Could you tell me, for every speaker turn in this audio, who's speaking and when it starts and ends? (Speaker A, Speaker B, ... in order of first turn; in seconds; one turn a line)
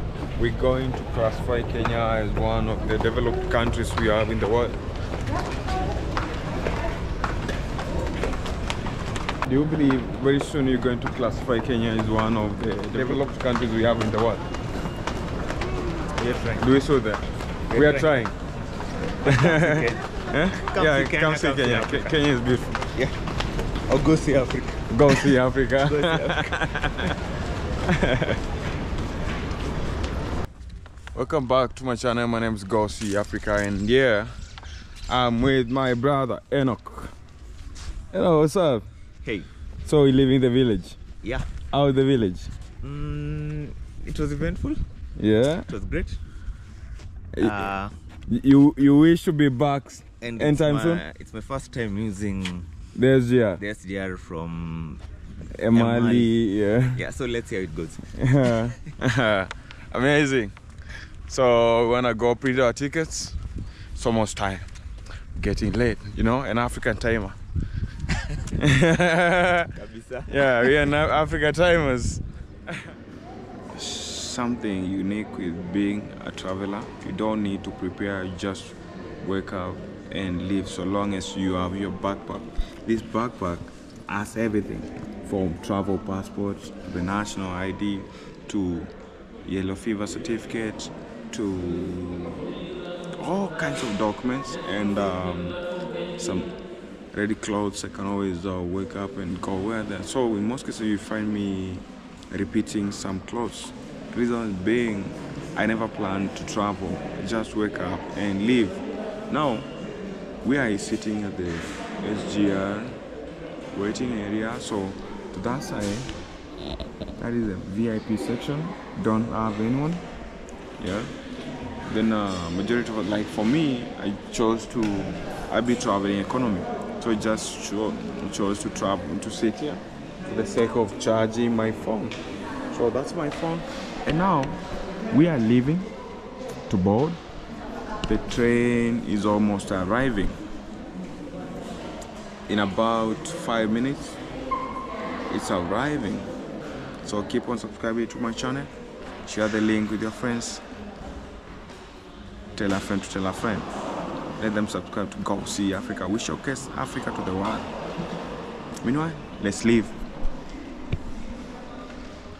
Speaker A: 0.4-4.8
Speaker A: 9.4-14.4
Speaker B: 12.9-13.3
Speaker B: 16.2-16.7
Speaker A: 16.6-18.3
Speaker B: 17.7-18.1
Speaker B: 19.2-20.0
Speaker A: 19.2-22.8
Speaker B: 20.6-22.2
Speaker B: 23.9-27.1
Speaker A: 24.9-27.1
Speaker A: 27.9-28.4
Speaker A: 31.1-34.3
Speaker A: 35.1-37.1
Speaker A: 38.1-38.9
Speaker B: 39.2-39.5
Speaker A: 39.9-41.0
Speaker B: 41.2-41.5
Speaker A: 41.7-42.5
Speaker B: 42.8-44.8
Speaker A: 45.2-45.7
Speaker B: 45.7-46.2
Speaker A: 47.3-47.7
Speaker B: 47.4-47.9
Speaker A: 48.3-51.0
Speaker B: 50.2-52.7
Speaker A: 53.0-53.6
Speaker B: 53.6-55.0
Speaker A: 55.5-57.0
Speaker B: 55.7-56.3
Speaker B: 57.0-58.1
Speaker A: 58.2-60.5
Speaker A: 61.3-63.4
Speaker A: 64.0-64.7
Speaker A: 65.3-67.3
Speaker A: 68.6-69.7
Speaker B: 69.7-70.7
Speaker A: 70.2-72.7
Speaker A: 73.7-88.9
Speaker A: 89.4-92.4
Speaker A: 93.2-95.6
Speaker A: 96.2-96.5
Speaker A: 97.1-109.7
Speaker A: 110.4-113.0
Speaker A: 113.7-116.1
Speaker A: 117.2-120.0
Speaker A: 120.8-121.1
Speaker A: 121.9-132.2
Speaker A: 132.7-135.9
Speaker A: 136.7-137.2
Speaker A: 138.1-140.4
Speaker A: 142.5-144.2
Speaker A: 145.3-146.3
Speaker A: 147.0-148.7
Speaker A: 149.2-150.6
Speaker A: 152.5-153.7
Speaker A: 154.4-157.7
Speaker A: 158.8-159.9